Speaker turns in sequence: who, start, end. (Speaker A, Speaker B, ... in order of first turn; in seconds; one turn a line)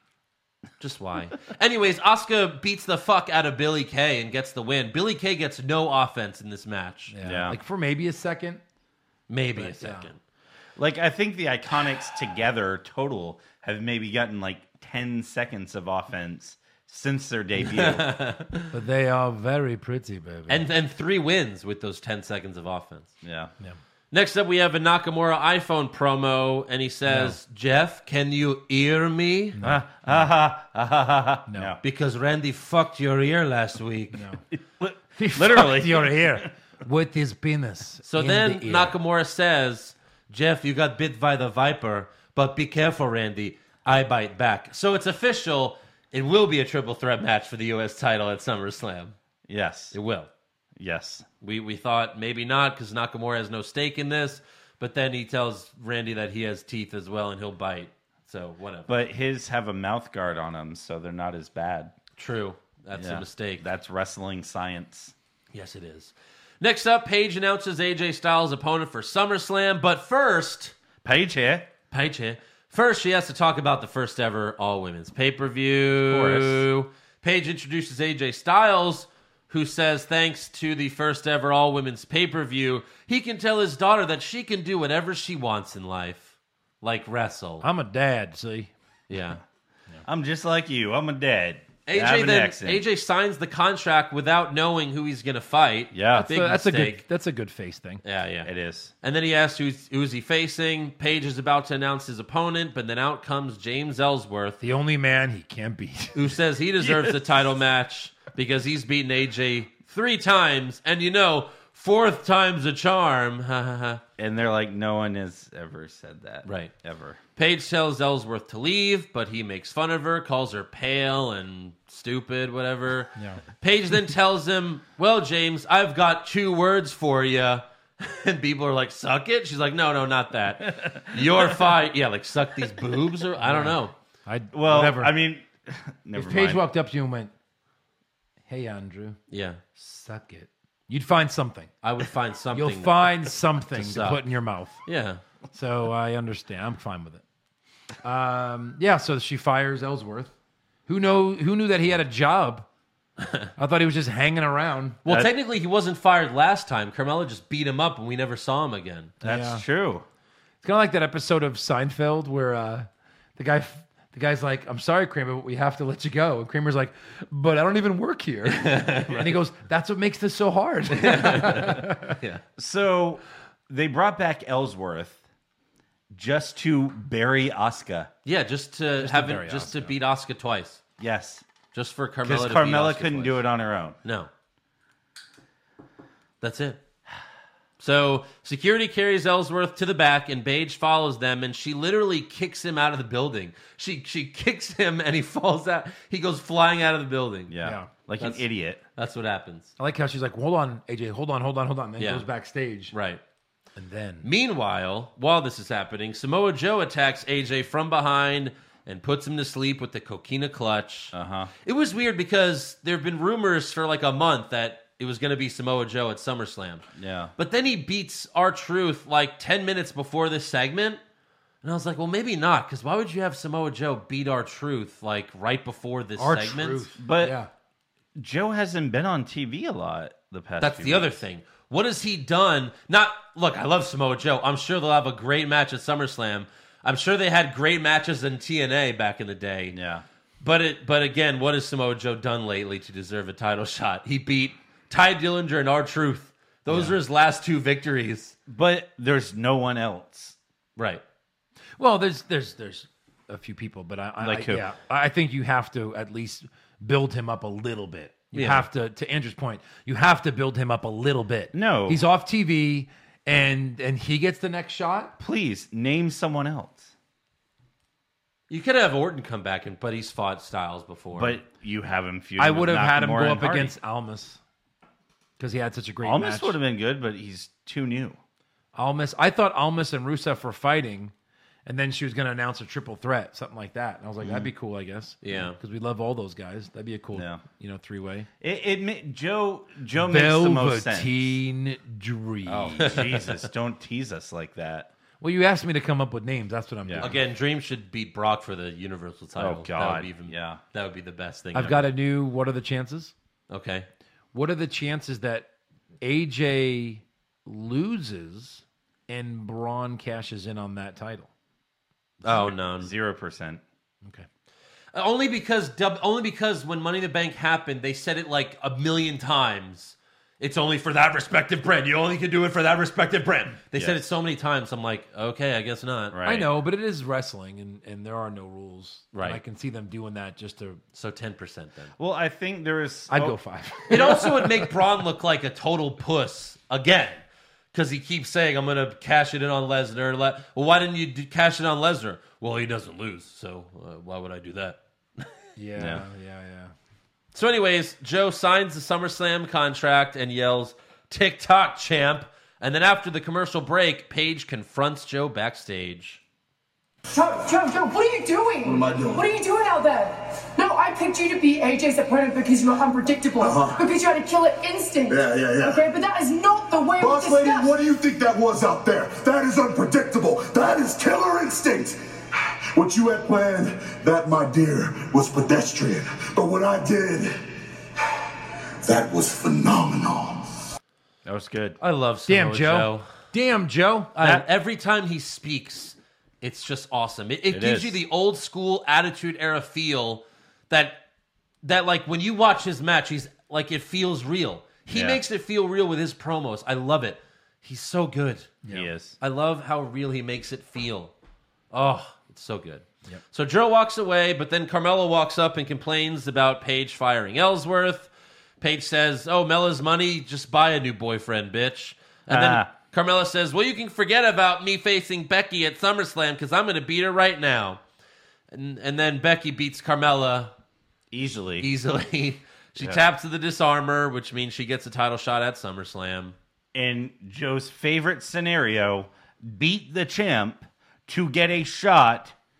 Speaker A: 0.8-7.1
Speaker B: 7.1-8.6
Speaker C: 7.2-7.6
Speaker A: 9.3-10.2
Speaker B: 9.6-10.1
Speaker C: 10.8-18.1
Speaker A: 17.6-18.7
Speaker B: 18.7-20.6
Speaker A: 20.5-23.1
Speaker C: 23.2-23.5
Speaker A: 24.1-29.6
Speaker B: 27.1-27.4
Speaker B: 29.6-30.2
Speaker C: 29.6-31.8
Speaker B: 31.5-31.7
Speaker A: 31.8-34.2
Speaker B: 34.1-34.4
Speaker C: 34.5-36.5
Speaker B: 35.2-39.0
Speaker A: 38.1-49.1
Speaker C: 49.5-49.9
Speaker A: 49.9-50.3
Speaker C: 50.8-51.2
Speaker A: 51.4-58.9
Speaker C: 58.9-61.9
Speaker A: 62.2-63.6
Speaker C: 62.9-65.1
Speaker A: 65.5-70.7
Speaker C: 71.0-71.7
Speaker A: 71.9-87.7
Speaker C: 76.0-76.6
Speaker B: 87.6-88.7
Speaker A: 89.1-89.4
Speaker C: 90.0-92.8
Speaker A: 91.8-97.0
Speaker C: 95.9-96.3
Speaker B: 96.1-98.0
Speaker A: 98.0-98.5
Speaker C: 98.4-98.9
Speaker A: 99.0-104.6
Speaker B: 104.6-106.2
Speaker A: 106.1-114.0
Speaker C: 106.8-107.2
Speaker C: 114.2-117.2
Speaker A: 116.4-116.7
Speaker A: 117.3-133.9
Speaker B: 123.2-123.4
Speaker C: 130.8-131.4
Speaker B: 133.4-135.1
Speaker C: 134.5-136.6
Speaker B: 136.1-137.3
Speaker B: 138.5-139.2
Speaker A: 139.3-139.6
Speaker B: 139.8-141.7
Speaker A: 141.8-144.3
Speaker B: 142.5-144.8
Speaker A: 144.8-145.2
Speaker B: 145.5-147.2
Speaker B: 148.0-150.3
Speaker B: 150.9-152.7
Speaker A: 153.2-153.5
Speaker B: 153.6-155.0
Speaker A: 155.0-159.1
Speaker C: 159.2-160.1
Speaker B: 159.2-159.6
Speaker B: 160.6-172.1
Speaker A: 168.4-169.3
Speaker A: 170.9-172.4
Speaker C: 172.6-175.2
Speaker C: 176.1-178.1
Speaker A: 178.2-180.8
Speaker B: 179.0-179.9
Speaker C: 181.0-181.4
Speaker A: 181.7-183.4
Speaker C: 182.2-184.0
Speaker A: 184.0-184.3
Speaker A: 186.4-186.8
Speaker A: 187.8-197.5
Speaker C: 197.5-198.8
Speaker B: 197.6-197.9
Speaker A: 198.9-199.7
Speaker B: 199.8-202.9
Speaker A: 202.0-202.2
Speaker A: 202.9-203.2
Speaker B: 203.8-204.3
Speaker A: 204.2-211.1
Speaker C: 211.1-211.5
Speaker A: 211.6-216.8
Speaker C: 216.9-217.3
Speaker A: 217.4-221.0
Speaker A: 221.6-226.8
Speaker B: 226.2-227.5
Speaker C: 227.0-227.4
Speaker C: 228.2-231.1
Speaker A: 230.6-239.8
Speaker C: 239.7-240.0
Speaker A: 240.4-248.3
Speaker C: 246.7-246.9
Speaker C: 248.5-250.3
Speaker A: 250.8-251.0
Speaker B: 251.8-265.1
Speaker C: 254.2-254.7
Speaker A: 258.3-258.7
Speaker C: 261.5-262.0
Speaker C: 265.2-266.9
Speaker A: 268.5-271.4
Speaker C: 271.1-273.7
Speaker B: 272.4-274.4
Speaker B: 275.4-276.6
Speaker C: 276.0-278.2
Speaker B: 278.7-281.1
Speaker B: 281.6-288.3
Speaker C: 284.2-284.5
Speaker A: 285.2-285.6
Speaker C: 287.1-287.4
Speaker C: 288.4-291.2
Speaker B: 290.0-292.8
Speaker C: 292.4-294.9
Speaker A: 292.8-293.5
Speaker B: 295.2-297.2
Speaker C: 296.9-297.1
Speaker A: 297.0-301.9
Speaker C: 299.4-300.6
Speaker B: 301.5-303.1
Speaker A: 303.5-303.9
Speaker B: 304.3-305.4
Speaker B: 306.0-311.3
Speaker C: 312.2-313.6
Speaker A: 312.2-312.9
Speaker A: 314.9-326.1
Speaker C: 323.7-324.1
Speaker C: 326.1-326.5
Speaker B: 326.2-330.8
Speaker A: 329.1-329.4
Speaker A: 330.9-331.9
Speaker C: 332.0-333.4
Speaker B: 333.1-334.6
Speaker A: 333.9-337.2
Speaker A: 337.7-345.3
Speaker B: 345.6-346.7
Speaker C: 345.8-346.0
Speaker A: 347.3-356.2
Speaker D: 357.1-367.7
Speaker E: 365.2-365.8
Speaker E: 367.0-371.9
Speaker E: 372.8-377.3
Speaker E: 378.9-380.4
Speaker C: 381.2-381.8
Speaker A: 381.8-383.1
Speaker B: 382.3-384.1
Speaker A: 384.1-391.0
Speaker C: 387.5-388.0
Speaker A: 391.6-398.6
Speaker C: 394.9-395.2
Speaker C: 398.7-399.2
Speaker A: 399.2-401.1
Speaker A: 401.7-408.1
Speaker A: 408.6-417.8
Speaker C: 412.3-412.7
Speaker A: 418.5-420.5
Speaker C: 421.1-421.7
Speaker A: 421.6-426.3
Speaker C: 426.7-432.3